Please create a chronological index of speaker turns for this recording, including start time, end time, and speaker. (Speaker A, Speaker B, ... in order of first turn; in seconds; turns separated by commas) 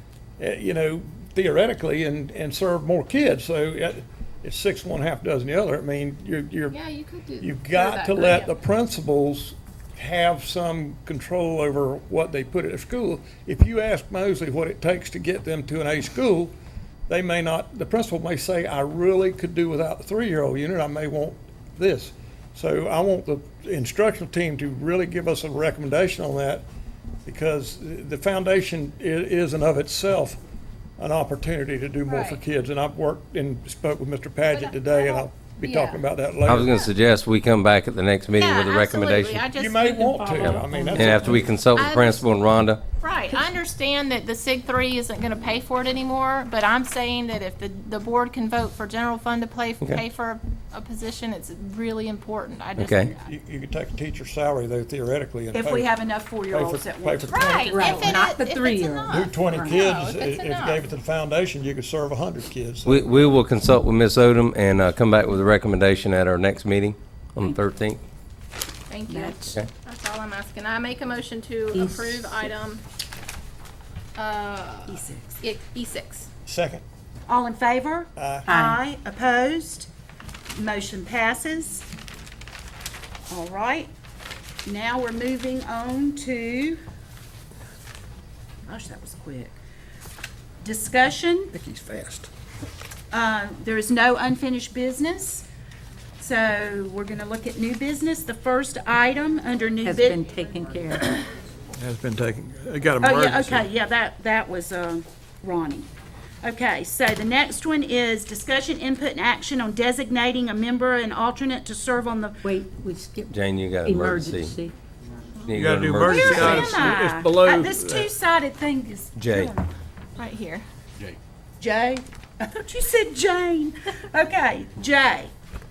Speaker A: 0.4-6.8, Speaker B: 6.7-8.6, Speaker A: 7.4-16.5, Speaker A: 17.1-26.7, Speaker A: 27.2-30.4, Speaker A: 31.0-36.9, Speaker B: 32.1-32.4, Speaker B: 34.5-36.0, Speaker C: 36.5-39.5, Speaker B: 38.3-42.3, Speaker A: 39.5-41.5, Speaker D: 39.9-41.4, Speaker C: 40.4-42.8, Speaker B: 43.0-53.2, Speaker C: 52.8-53.1, Speaker A: 53.2-55.9, Speaker E: 55.5-58.2, Speaker A: 56.5-57.8, Speaker B: 57.3-60.8, Speaker D: 57.7-59.8, Speaker A: 59.1-63.4, Speaker C: 62.9-68.0, Speaker B: 68.9-72.8, Speaker D: 69.1-69.6, Speaker D: 71.7-72.5, Speaker B: 74.2-76.3, Speaker E: 74.9-75.4, Speaker A: 76.5-76.8, Speaker E: 77.3-79.9, Speaker A: 78.2-78.5, Speaker D: 78.5-78.8, Speaker E: 80.5-81.9, Speaker E: 83.3-83.9, Speaker E: 84.7-86.8, Speaker E: 88.7-89.5, Speaker E: 90.6-91.5, Speaker A: 91.5-92.3, Speaker E: 93.1-95.5, Speaker E: 96.2-100.2, Speaker D: 99.8-101.2, Speaker A: 101.8-103.7, Speaker E: 103.0-105.9, Speaker E: 106.4-112.5, Speaker D: 112.4-114.8, Speaker C: 113.3-114.5, Speaker C: 115.5-116.7, Speaker A: 115.5-118.1, Speaker E: 116.0-119.7, Speaker B: 116.3-116.8, Speaker C: 119.2-119.5, Speaker B: 120.2-120.6, Speaker E: 121.6-125.3